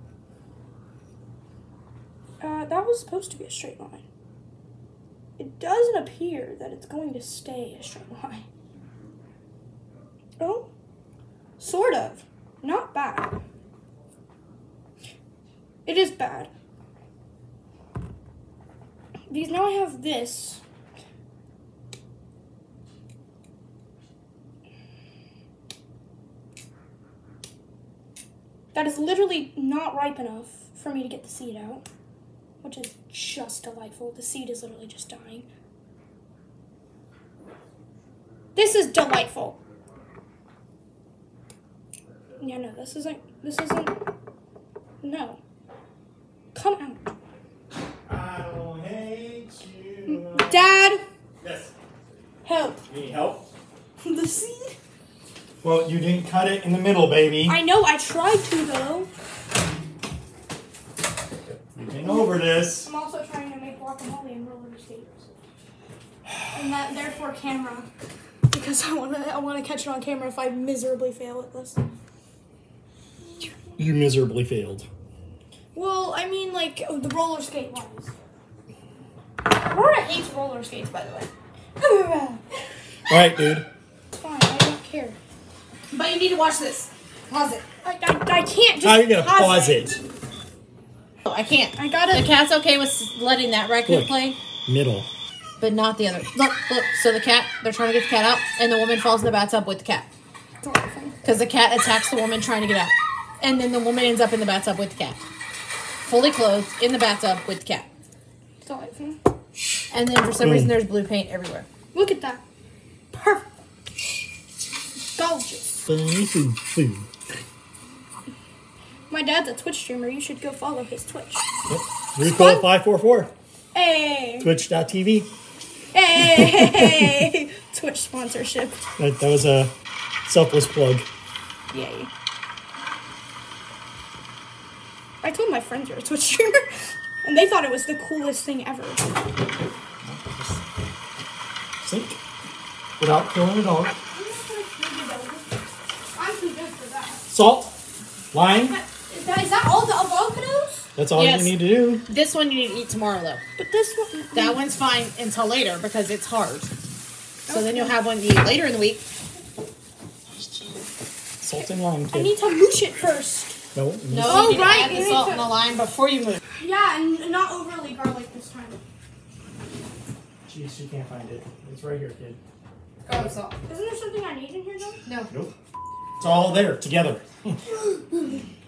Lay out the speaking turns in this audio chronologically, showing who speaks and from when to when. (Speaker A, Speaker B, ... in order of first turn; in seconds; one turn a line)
Speaker A: 2.4-4.0
Speaker A: 5.4-8.5
Speaker A: 10.4-10.7
Speaker A: 11.6-13.4
Speaker A: 15.9-16.5
Speaker A: 19.3-20.6
Speaker A: 28.7-31.8
Speaker A: 32.6-35.5
Speaker A: 38.5-39.6
Speaker A: 42.4-44.0
Speaker A: 45.0-45.4
Speaker A: 46.5-47.0
Speaker B: 48.1-50.8
Speaker A: 50.1-51.0
Speaker B: 51.4-51.7
Speaker A: 52.5-52.8
Speaker B: 52.9-53.5
Speaker A: 54.0-54.8
Speaker B: 55.6-57.6
Speaker A: 57.5-59.1
Speaker B: 61.7-62.9
Speaker A: 62.0-65.3
Speaker A: 66.5-67.9
Speaker A: 68.5-71.8
Speaker B: 73.8-74.9
Speaker A: 75.7-78.1
Speaker A: 79.5-82.4
Speaker B: 83.1-83.7
Speaker A: 84.1-85.2
Speaker C: 85.9-87.6
Speaker A: 87.3-90.0
Speaker B: 88.8-90.0
Speaker C: 91.3-94.4
Speaker A: 91.8-92.3
Speaker B: 93.9-94.2
Speaker B: 94.7-95.1
Speaker C: 95.6-100.1
Speaker A: 100.6-101.2
Speaker C: 101.2-105.2
Speaker C: 106.0-107.9
Speaker A: 108.6-109.2
Speaker C: 109.9-111.7
Speaker B: 110.4-110.7
Speaker A: 111.9-112.4
Speaker A: 113.1-113.5
Speaker A: 115.2-115.7
Speaker B: 115.8-117.1
Speaker A: 119.1-121.5
Speaker B: 121.7-123.3
Speaker A: 122.2-122.7
Speaker A: 123.7-124.5
Speaker B: 124.4-125.3
Speaker A: 125.9-128.8
Speaker B: 126.3-126.9
Speaker B: 129.0-129.7
Speaker B: 130.3-131.1
Speaker A: 131.7-132.1
Speaker A: 135.2-136.7
Speaker A: 137.2-139.0
Speaker B: 140.0-140.5
Speaker B: 141.8-142.2
Speaker B: 143.0-144.0
Speaker A: 144.1-145.6
Speaker A: 146.2-147.2
Speaker B: 147.3-147.8
Speaker B: 148.3-148.8
Speaker A: 148.7-150.9
Speaker B: 151.0-152.1
Speaker C: 151.1-153.4
Speaker A: 153.6-154.6
Speaker C: 154.3-156.7
Speaker A: 157.5-158.0
Speaker C: 157.5-159.0
Speaker B: 161.4-162.3
Speaker A: 162.1-163.6
Speaker B: 163.8-164.8
Speaker C: 164.1-166.4
Speaker A: 164.2-165.6
Speaker A: 166.6-168.8
Speaker B: 170.5-172.4
Speaker C: 173.0-173.6
Speaker A: 173.7-175.0
Speaker C: 175.1-175.3
Speaker B: 175.3-175.6
Speaker B: 176.2-177.6